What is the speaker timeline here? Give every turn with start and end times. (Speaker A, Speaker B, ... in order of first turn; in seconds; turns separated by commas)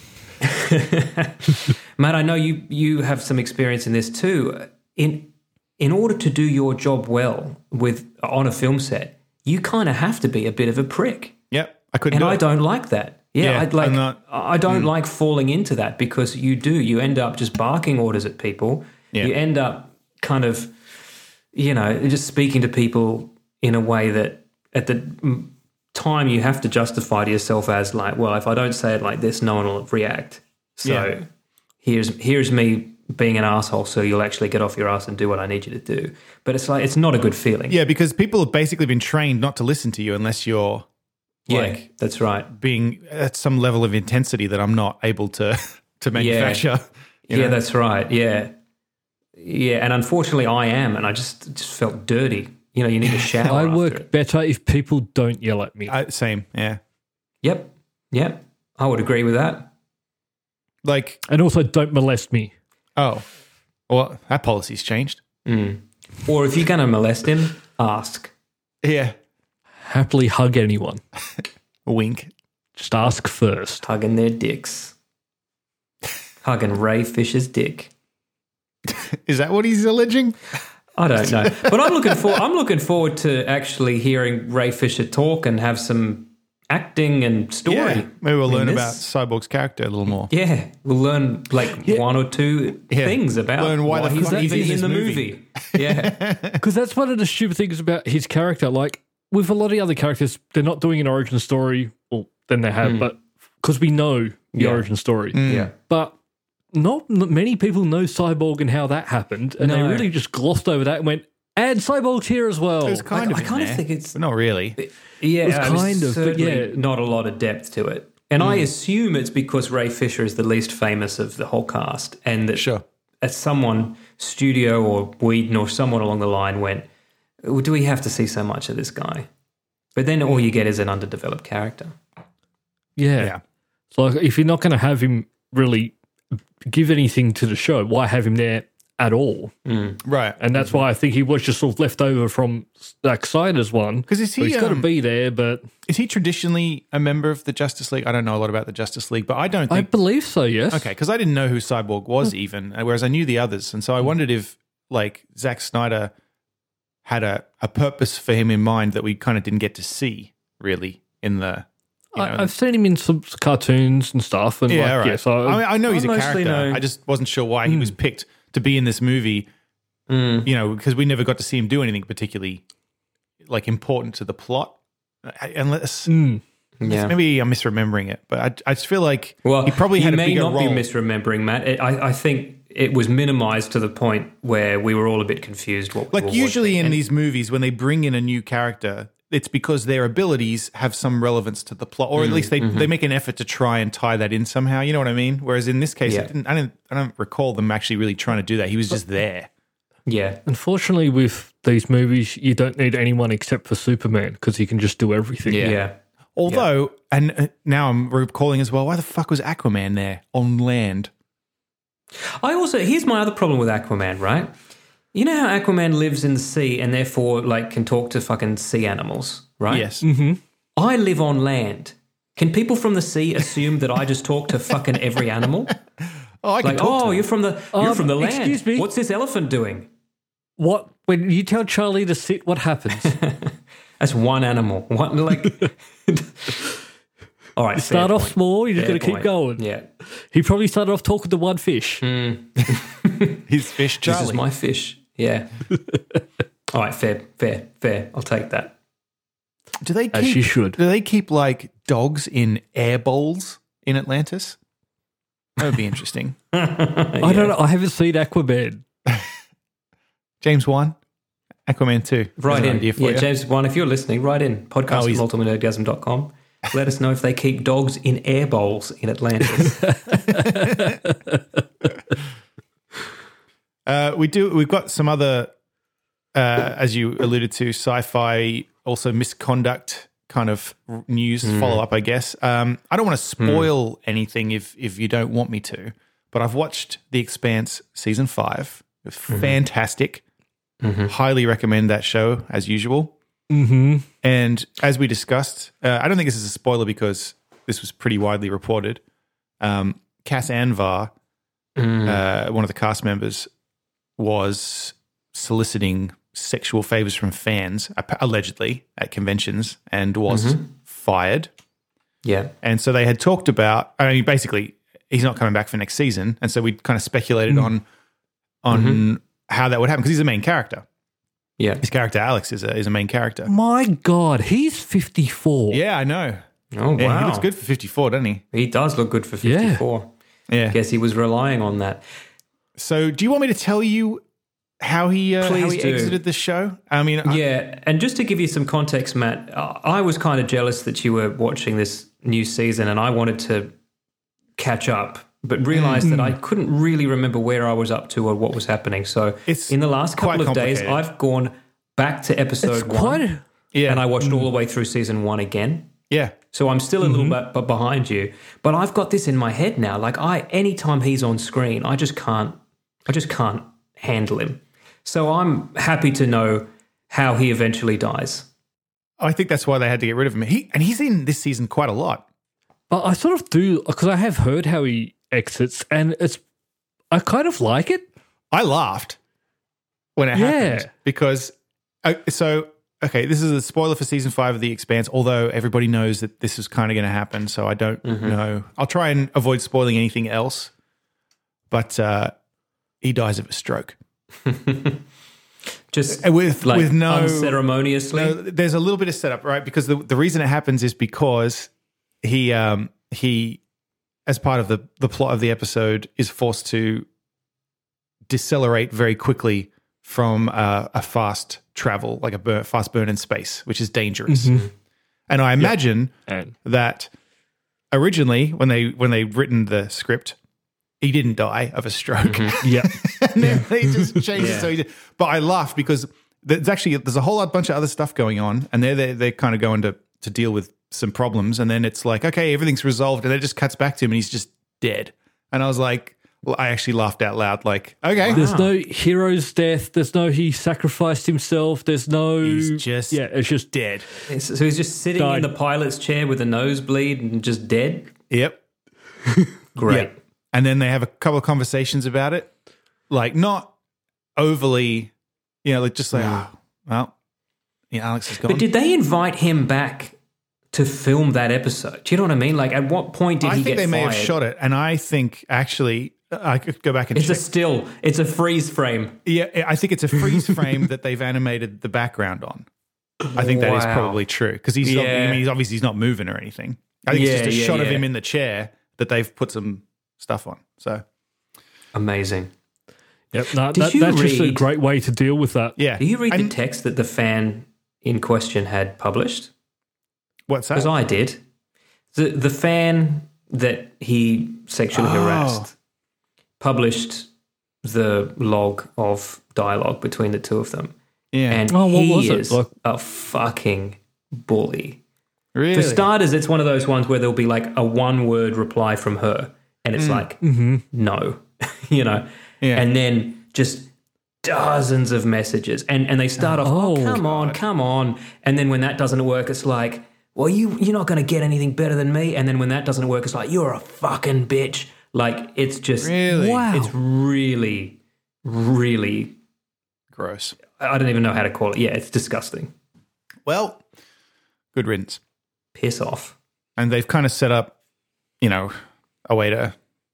Speaker A: 0.4-11.3, Speaker B: 11.5-12.4, Speaker A: 12.1-20.9, Speaker B: 13.4-14.9, Speaker A: 21.5-31.2, Speaker B: 30.8-31.1, Speaker A: 31.8-37.8, Speaker B: 37.7-40.9, Speaker B: 41.5-41.8, Speaker A: 41.5-42.5, Speaker B: 42.5-47.6, Speaker A: 46.1-46.6, Speaker A: 47.3-48.5, Speaker A: 49.4-54.1, Speaker C: 53.4-56.0, Speaker B: 55.9-56.8, Speaker A: 57.4-59.7, Speaker B: 60.8-61.2, Speaker C: 61.3-62.5, Speaker B: 63.0-63.2, Speaker B: 63.9-65.2, Speaker A: 65.5-68.3, Speaker B: 68.8-69.2, Speaker C: 69.8-71.0, Speaker B: 71.8-72.3, Speaker C: 72.8-73.8, Speaker A: 73.8-74.9, Speaker A: 76.4-77.9, Speaker B: 78.9-80.4, Speaker A: 80.9-89.0, Speaker B: 81.2-82.2, Speaker B: 87.7-90.3, Speaker A: 90.3-96.2, Speaker B: 92.9-96.6, Speaker C: 94.2-94.7, Speaker C: 96.6-106.1, Speaker A: 102.8-103.1, Speaker A: 104.5-104.8, Speaker B: 105.3-105.7, Speaker A: 105.4-105.7, Speaker C: 106.7-113.0, Speaker A: 109.6-110.1, Speaker B: 112.8-114.8, Speaker A: 113.1-114.2, Speaker A: 114.8-122.7, Speaker C: 115.4-116.8, Speaker B: 118.4-118.7, Speaker B: 122.5-122.8, Speaker A: 123.2-126.8, Speaker A: 127.4-129.3, Speaker A: 129.9-131.9, Speaker C: 133.0-133.3, Speaker C: 133.9-135.9, Speaker C: 136.6-139.5, Speaker A: 139.7-140.0, Speaker B: 140.0-140.4, Speaker C: 140.4-145.7, Speaker A: 140.5-140.8, Speaker B: 144.1-144.9, Speaker B: 145.9-149.9, Speaker C: 149.7-150.9, Speaker B: 150.7-156.1, Speaker B: 157.0-162.5, Speaker C: 162.1-165.6, Speaker B: 164.7-169.5, Speaker A: 165.9-166.8, Speaker C: 167.7-167.9, Speaker A: 170.1-170.5, Speaker B: 170.4-172.6, Speaker B: 173.4-176.1, Speaker C: 176.1-176.4, Speaker A: 176.8-177.2, Speaker B: 176.8-180.9, Speaker A: 179.4-187.0, Speaker B: 186.1-199.5, Speaker A: 192.1-192.9, Speaker A: 196.0-196.3, Speaker A: 200.1-200.4, Speaker C: 200.5-205.8, Speaker A: 205.5-205.9, Speaker B: 206.4-211.1, Speaker A: 212.2-214.5, Speaker A: 215.1-219.9, Speaker B: 219.7-220.1, Speaker C: 220.0-220.4, Speaker A: 220.8-225.8, Speaker B: 226.4-227.2, Speaker A: 226.6-229.9, Speaker C: 227.7-228.9, Speaker C: 230.6-233.1, Speaker A: 233.0-236.6, Speaker A: 237.6-239.9, Speaker C: 237.8-239.6, Speaker C: 240.2-242.0, Speaker A: 242.0-243.4, Speaker B: 243.5-244.4, Speaker A: 244.0-245.5, Speaker A: 246.7-248.7, Speaker B: 249.8-254.6, Speaker C: 250.1-250.8, Speaker B: 255.6-256.4, Speaker A: 256.5-257.5, Speaker C: 257.2-258.8, Speaker B: 260.4-260.9, Speaker B: 261.7-263.3, Speaker A: 262.4-269.9, Speaker B: 264.9-265.2, Speaker C: 269.6-271.4, Speaker B: 270.4-270.8, Speaker B: 273.9-275.5, Speaker B: 276.3-290.2, Speaker A: 281.4-281.8, Speaker A: 283.4-283.7, Speaker A: 289.3-289.6, Speaker A: 290.8-291.1, Speaker B: 291.1-293.1, Speaker C: 293.5-294.1, Speaker B: 294.2-299.0, Speaker B: 299.6-301.1, Speaker A: 301.8-302.2, Speaker B: 302.0-303.5, Speaker B: 304.2-311.5, Speaker A: 310.3-310.7, Speaker A: 312.2-312.5, Speaker B: 312.6-317.8, Speaker B: 318.6-320.9, Speaker A: 318.7-319.0, Speaker B: 321.8-323.5, Speaker C: 323.4-325.8, Speaker B: 325.7-326.4, Speaker A: 326.7-327.5, Speaker B: 327.0-328.4, Speaker A: 328.5-330.1, Speaker C: 329.4-329.8, Speaker B: 330.5-330.8, Speaker A: 330.7-332.0, Speaker B: 332.8-334.2, Speaker B: 334.8-337.4, Speaker A: 335.4-336.2, Speaker A: 337.2-343.7, Speaker A: 344.6-353.2, Speaker B: 345.7-346.1, Speaker C: 346.0-346.4, Speaker B: 349.5-351.0, Speaker C: 352.6-353.4, Speaker B: 353.7-354.1, Speaker A: 353.9-355.9, Speaker B: 356.1-356.4, Speaker A: 356.5-368.5, Speaker C: 357.0-357.4, Speaker B: 369.2-372.2, Speaker C: 372.9-376.4, Speaker C: 377.1-378.1, Speaker B: 378.5-379.2, Speaker B: 380.1-390.7, Speaker C: 380.3-380.9, Speaker A: 388.0-388.4, Speaker B: 391.7-392.3, Speaker B: 393.0-394.0, Speaker A: 394.4-395.0, Speaker A: 395.9-398.4, Speaker B: 396.1-397.6, Speaker B: 398.1-401.7, Speaker B: 402.2-403.6, Speaker B: 404.3-407.1, Speaker B: 408.3-414.6, Speaker C: 414.3-414.7, Speaker B: 415.3-417.1, Speaker C: 415.6-416.5, Speaker B: 417.9-420.4, Speaker B: 421.0-438.4, Speaker A: 422.2-422.6, Speaker C: 422.6-424.3, Speaker A: 424.4-424.7, Speaker A: 438.2-438.7, Speaker C: 438.3-443.7, Speaker B: 442.4-444.0, Speaker A: 444.3-448.1, Speaker C: 445.1-445.5, Speaker B: 448.3-448.6, Speaker A: 449.7-450.1, Speaker B: 449.9-452.5, Speaker B: 453.1-453.7, Speaker B: 454.4-455.1, Speaker B: 455.6-457.1, Speaker A: 456.1-456.4, Speaker B: 457.9-458.6, Speaker A: 458.4-460.1, Speaker A: 460.7-464.4, Speaker B: 463.4-467.4, Speaker A: 467.1-469.2, Speaker B: 469.2-472.7, Speaker A: 473.3-474.2, Speaker B: 473.3-481.0, Speaker A: 474.8-475.5, Speaker A: 477.1-478.1, Speaker A: 481.9-482.5, Speaker C: 483.3-485.8, Speaker A: 483.7-484.7, Speaker B: 485.8-486.5, Speaker A: 486.0-489.5, Speaker B: 490.5-490.9, Speaker A: 490.7-491.4, Speaker A: 492.1-495.7, Speaker B: 494.9-495.7, Speaker A: 496.6-497.3, Speaker A: 497.8-500.9, Speaker B: 501.3-501.6, Speaker A: 501.5-505.0, Speaker C: 501.7-502.7, Speaker B: 505.5-506.1, Speaker A: 505.7-513.9, Speaker B: 509.9-510.2, Speaker C: 510.4-510.8, Speaker A: 514.4-529.4, Speaker C: 516.6-517.2, Speaker B: 517.2-517.6, Speaker B: 526.0-526.7, Speaker C: 526.3-526.9, Speaker B: 530.1-530.6, Speaker A: 530.8-532.7, Speaker B: 533.5-533.8, Speaker B: 534.7-535.2, Speaker A: 535.7-536.4, Speaker B: 536.8-537.7, Speaker B: 538.4-539.8